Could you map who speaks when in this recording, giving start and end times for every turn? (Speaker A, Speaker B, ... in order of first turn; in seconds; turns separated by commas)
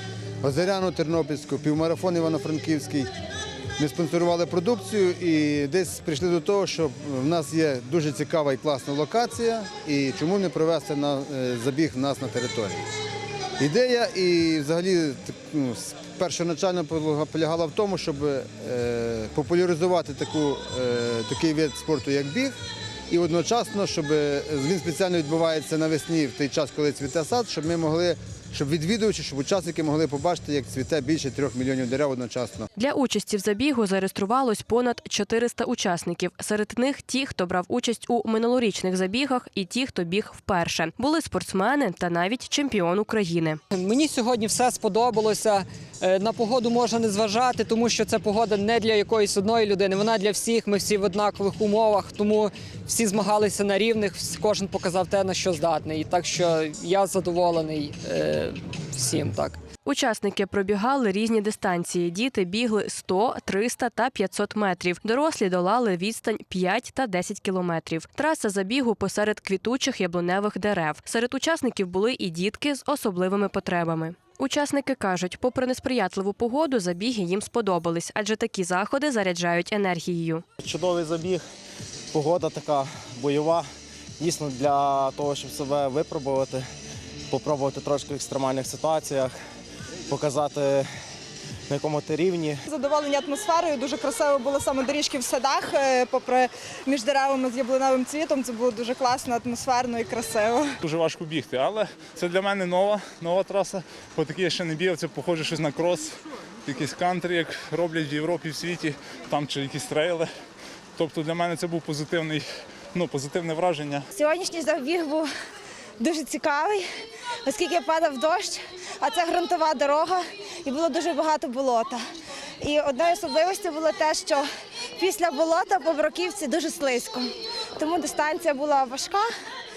Speaker A: 0.4-3.1, Speaker A: 3.8-12.8, Speaker A: 13.6-22.5, Speaker A: 23.1-32.7, Speaker B: 32.8-43.6, Speaker C: 43.7-59.6, Speaker B: 59.8-80.4, Speaker D: 80.6-81.4, Speaker D: 82.1-83.7, Speaker D: 84.2-86.7, Speaker D: 87.3-89.3, Speaker D: 90.1-90.9, Speaker D: 91.7-92.6, Speaker E: 92.7-100.7, Speaker F: 100.8-106.1, Speaker F: 106.7-110.3, Speaker F: 111.0-114.0, Speaker G: 114.1-115.3, Speaker G: 116.0-116.8, Speaker G: 117.4-122.0, Speaker G: 122.6-129.3